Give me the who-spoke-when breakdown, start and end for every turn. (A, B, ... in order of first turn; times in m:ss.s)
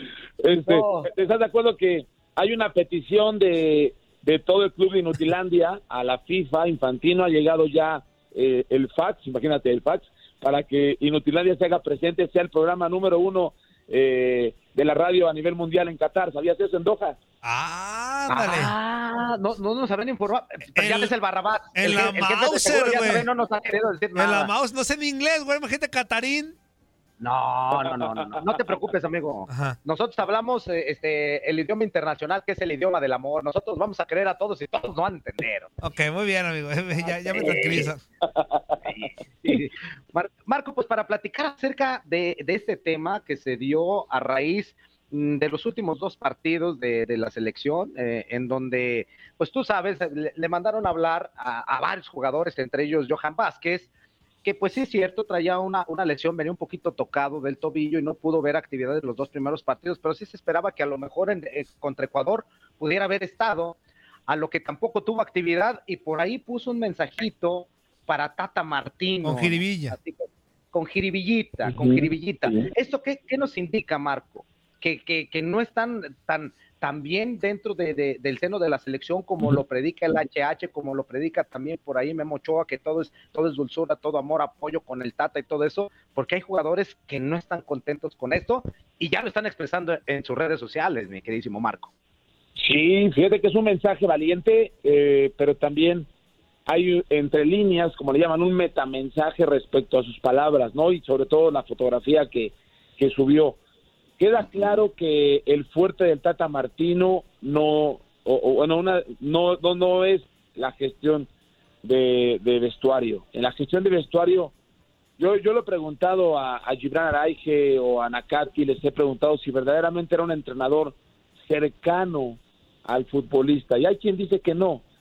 0:00.4-0:17.2 A
0:00.7-0:01.1 B
0:17.4-0:18.7 C
0:18.3-0:24.5 B
0:20.8-0:21.1 C
0:21.8-0:23.3 C
0:24.2-0:26.6 C
0:27.2-0:35.7 B
0:29.5-0:29.8 C
0:35.8-0:38.0 C
0:37.0-0:38.0 B
0:38.8-0:53.9 B
0:54.4-1:03.8 B
1:04.3-1:31.9 B
1:09.2-1:10.0 C
1:32.6-1:36.1 A
1:36.7-1:43.6 A
1:44.2-1:51.3 A
1:51.8-1:54.5 A
1:55.2-2:04.8 A